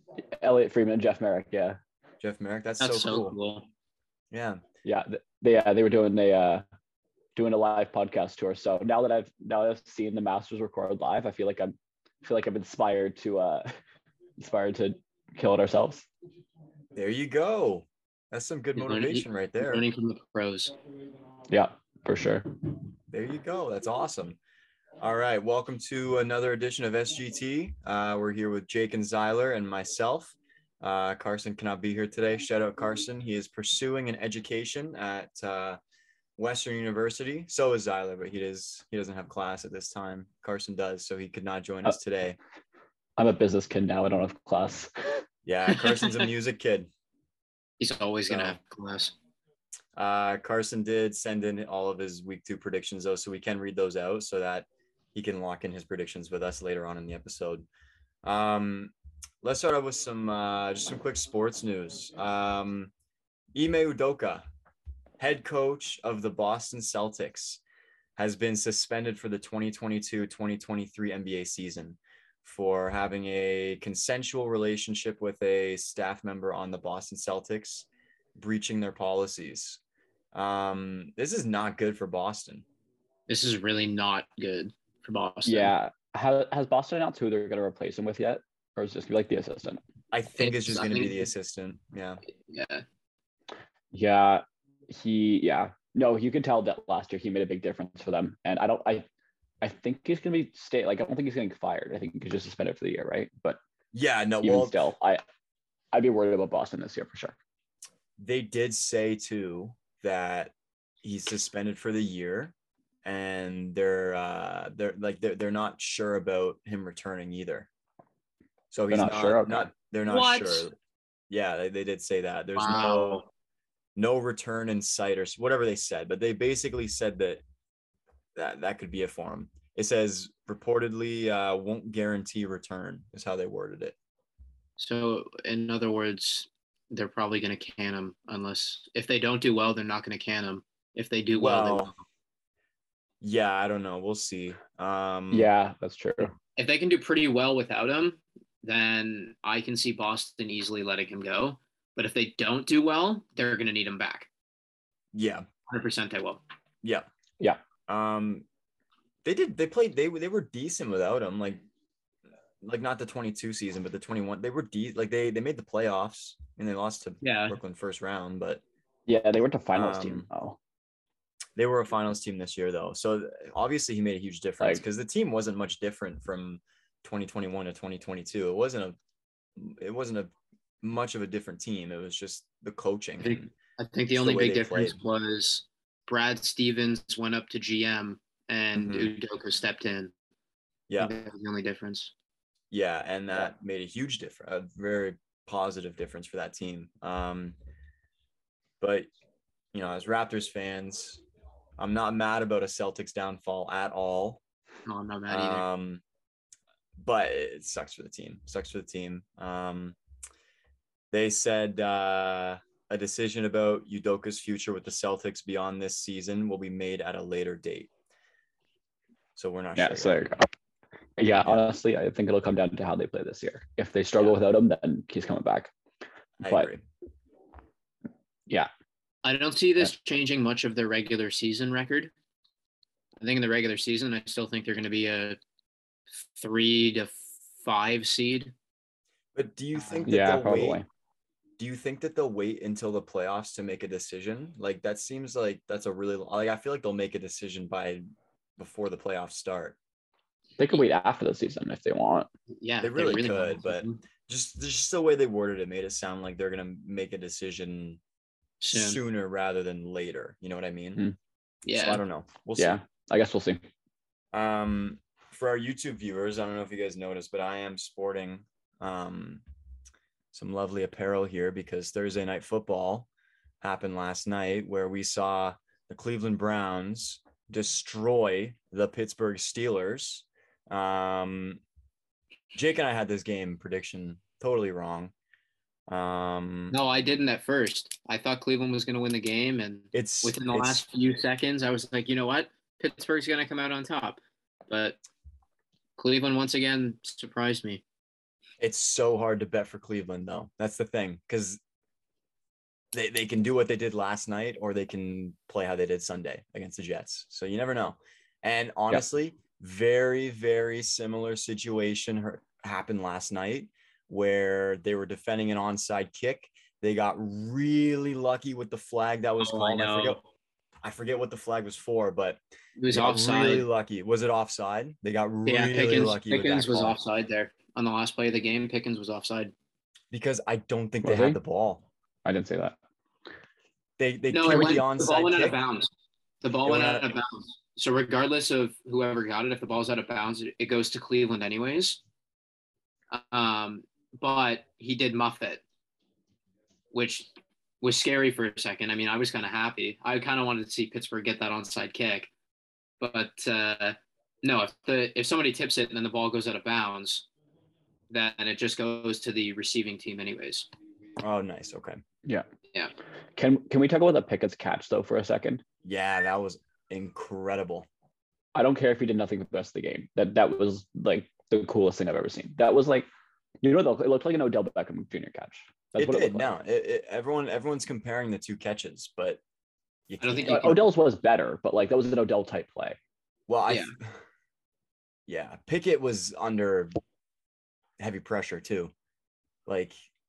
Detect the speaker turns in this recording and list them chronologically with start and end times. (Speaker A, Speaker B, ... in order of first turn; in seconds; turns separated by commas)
Speaker A: 0.2-1.8, Speaker B: 2.2-3.4, Speaker C: 2.8-3.7, Speaker B: 4.3-4.6, Speaker A: 4.8-6.7, Speaker A: 7.3-13.7, Speaker A: 14.4-16.1, Speaker B: 16.9-19.8, Speaker C: 18.8-20.7, Speaker A: 21.5-22.5, Speaker B: 23.1-24.4, Speaker B: 25.0-35.8, Speaker B: 36.4-42.4, Speaker A: 43.2-45.2, Speaker B: 45.4-46.9, Speaker C: 47.8-49.1, Speaker B: 48.3-48.6, Speaker B: 50.0-57.6, Speaker B: 58.2-62.9, Speaker B: 63.5-64.4, Speaker B: 65.2-67.6, Speaker B: 68.2-79.8, Speaker B: 80.3-82.6, Speaker C: 83.3-85.7, Speaker A: 85.4-89.8, Speaker B: 90.1-92.2, Speaker C: 90.4-91.3, Speaker C: 92.5-92.8, Speaker A: 93.9-99.1, Speaker A: 99.6-103.6, Speaker B: 103.9-104.9, Speaker A: 104.4-105.2, Speaker A: 105.9-107.3, Speaker B: 108.2-117.7, Speaker B: 118.7-120.7, Speaker A: 118.9-119.7, Speaker C: 120.0-120.7, Speaker B: 121.3-123.2, Speaker C: 122.5-123.2, Speaker B: 124.0-127.4, Speaker B: 128.3-133.9, Speaker C: 134.8-141.9, Speaker B: 141.4-141.9, Speaker B: 143.2-145.5, Speaker A: 145.3-146.3, Speaker C: 146.6-154.3, Speaker B: 155.1-155.5, Speaker C: 155.7-156.4, Speaker B: 157.9-158.4, Speaker B: 159.2-161.6, Speaker B: 162.6-168.6, Speaker C: 167.2-167.6, Speaker A: 169.1-170.6, Speaker B: 169.7-170.3, Speaker B: 171.6-178.9, Speaker B: 179.6-180.3, Speaker B: 180.8-183.5, Speaker C: 183.2-190.1, Speaker B: 184.1-185.0, Speaker B: 188.7-189.1, Speaker C: 191.0-192.1, Speaker B: 192.7-197.6, Speaker B: 198.8-199.1, Speaker B: 199.7-201.2, Speaker B: 201.8-204.4, Speaker C: 204.8-205.6, Speaker B: 205.3-206.0, Speaker B: 207.0-209.9, Speaker B: 211.1-217.9, Speaker B: 219.3-220.3, Speaker A: 219.8-220.5, Speaker A: 221.2-225.7, Speaker B: 221.4-221.7, Speaker B: 226.4-226.8, Speaker C: 229.2-232.1, Speaker C: 233.2-235.4, Speaker C: 236.2-238.5, Speaker B: 239.3-240.8, Speaker A: 240.1-240.8, Speaker B: 241.6-248.0, Speaker B: 248.6-249.8, Speaker A: 250.6-252.3, Speaker C: 252.6-254.0, Speaker B: 252.8-258.0, Speaker C: 258.6-259.0, Speaker B: 258.7-261.0, Speaker C: 261.6-262.0, Speaker B: 261.7-262.8, Speaker A: 262.6-263.7, Speaker B: 264.3-269.4, Speaker B: 270.3-273.1, Speaker B: 273.6-281.6, Speaker B: 282.5-285.1, Speaker B: 285.9-286.8, Speaker C: 286.7-295.0, Speaker B: 289.9-290.8, Speaker C: 296.0-297.8, Speaker B: 298.6-301.6, Speaker B: 302.9-320.2, Speaker C: 319.4-320.2, Speaker B: 320.8-327.0, Speaker C: 322.8-323.6, Speaker C: 325.4-329.5, Speaker B: 330.1-331.9, Speaker A: 331.0-331.4, Speaker A: 332.2-332.8, Speaker B: 334.0-335.6, Speaker C: 334.3-335.9, Speaker C: 336.4-342.0, Speaker B: 336.6-337.1, Speaker C: 343.1-345.6, Speaker C: 346.9-347.3, Speaker C: 347.8-352.3, Speaker C: 353.0-357.2, Speaker C: 358.1-360.7, Speaker B: 361.2-362.0, Speaker A: 363.4-365.6, Speaker B: 365.8-367.9, Speaker A: 368.5-373.1, Speaker A: 373.6-376.5, Speaker B: 375.9-379.4, Speaker B: 380.1-380.9, Speaker C: 380.2-380.8, Speaker A: 380.5-383.0, Speaker B: 383.5-384.1, Speaker B: 385.3-387.0, Speaker B: 388.0-388.9, Speaker B: 389.6-389.9